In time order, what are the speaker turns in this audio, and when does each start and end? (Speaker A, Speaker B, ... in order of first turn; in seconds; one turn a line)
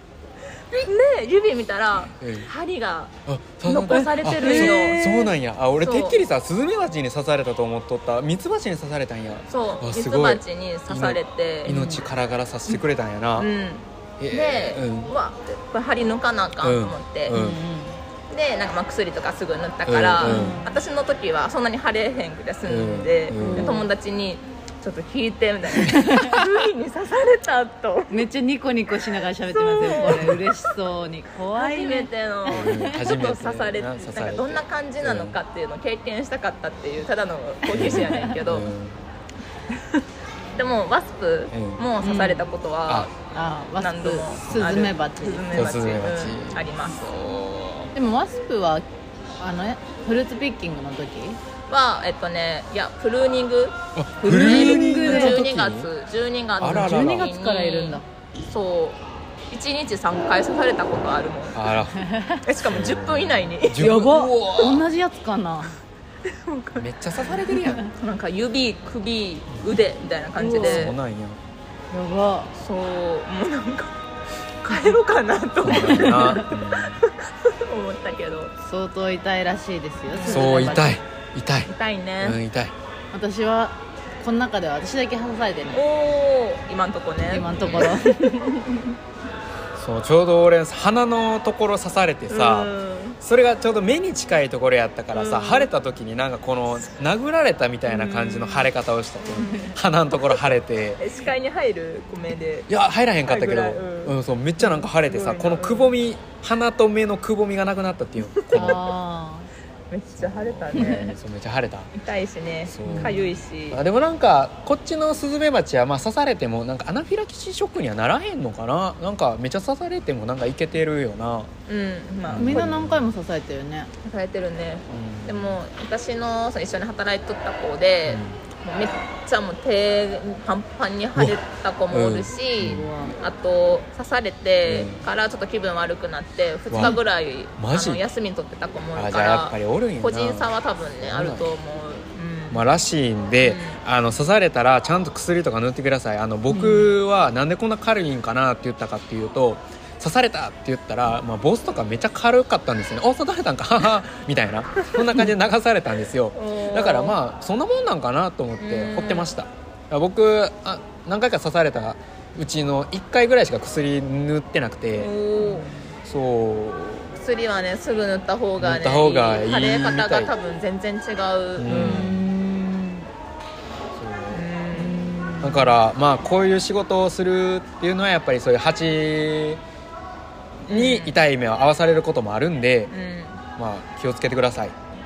Speaker A: 0.7-5.0
Speaker B: 2.2-2.5
Speaker B: 3.3-13.5
Speaker C: 4.2-5.3
Speaker A: 5.8-6.2
Speaker A: 9.5-11.7
Speaker C: 11.7-12.0
Speaker A: 13.4-17.4
Speaker B: 14.2-15.1
Speaker B: 16.6-17.6
Speaker C: 17.3-18.0
Speaker A: 18.3-28.3
Speaker B: 19.9-20.6
Speaker C: 20.2-20.8
Speaker B: 22.6-23.8
Speaker C: 23.4-23.9
Speaker C: 25.8-26.4
Speaker C: 28.1-33.0
Speaker A: 29.6-30.5
Speaker A: 31.5-38.7
Speaker B: 32.5-35.4
Speaker C: 37.7-38.4
Speaker B: 37.7-39.0
Speaker A: 39.7-40.0
Speaker A: 40.5-43.1
Speaker B: 41.5-41.8
Speaker C: 42.0-42.5
Speaker C: 43.3-45.7
Speaker A: 43.8-47.3
Speaker B: 45.5-47.9
Speaker C: 47.9-48.8
Speaker C: 49.4-51.4
Speaker A: 51.7-61.7
Speaker B: 53.9-55.9
Speaker C: 54.2-55.4
Speaker B: 56.6-57.3
Speaker C: 56.6-58.0
Speaker B: 61.5-62.1
Speaker C: 62.0-62.4
Speaker A: 62.4-63.9
Speaker B: 62.6-64.8
Speaker C: 63.8-65.7
Speaker A: 66.2-66.8
Speaker B: 66.8-67.8
Speaker A: 67.7-71.0
Speaker C: 70.4-70.9
Speaker B: 70.5-71.4
Speaker C: 71.9-72.5
Speaker A: 72.5-74.0
Speaker A: 74.6-78.5
Speaker B: 75.6-77.0
Speaker C: 75.7-76.5
Speaker C: 78.6-81.0
Speaker A: 80.1-80.8
Speaker B: 80.2-82.7
Speaker A: 81.7-82.4
Speaker C: 83.1-85.8
Speaker A: 85.7-88.3
Speaker C: 87.3-89.0
Speaker B: 87.6-87.9
Speaker B: 89.8-101.0
Speaker A: 92.3-93.2
Speaker A: 95.1-95.7
Speaker A: 97.9-98.7
Speaker A: 99.2-102.7
Speaker C: 99.4-99.7
Speaker B: 102.7-108.8
Speaker A: 103.2-104.2
Speaker A: 104.8-106.0
Speaker A: 108.3-108.9
Speaker C: 108.5-109.5
Speaker A: 109.9-111.1
Speaker B: 110.2-111.9
Speaker C: 110.7-111.1
Speaker A: 111.9-113.8
Speaker B: 112.7-121.5
Speaker C: 112.8-113.2
Speaker A: 121.7-122.7
Speaker B: 122.3-123.1
Speaker C: 122.3-123.9
Speaker A: 124.0-142.6
Speaker B: 124.9-125.6
Speaker B: 128.1-128.4
Speaker B: 131.9-132.9
Speaker C: 132.6-133.2
Speaker B: 134.6-135.0
Speaker B: 136.7-137.0
Speaker B: 137.6-138.0
Speaker B: 138.9-141.5
Speaker B: 142.5-165.1
Speaker A: 143.4-143.8
Speaker C: 146.5-146.9
Speaker A: 156.3-157.2
Speaker A: 158.6-159.3
Speaker A: 164.9-165.7
Speaker C: 165.4-165.9
Speaker B: 166.0-167.1
Speaker A: 167.2-172.2
Speaker B: 168.6-170.3
Speaker B: 171.6-172.2
Speaker C: 171.7-173.1
Speaker B: 173.9-174.4
Speaker A: 174.3-175.1
Speaker C: 174.7-175.8
Speaker B: 175.4-179.6
Speaker A: 180.7-181.2
Speaker B: 180.7-182.9
Speaker A: 182.9-183.4
Speaker B: 183.6-184.7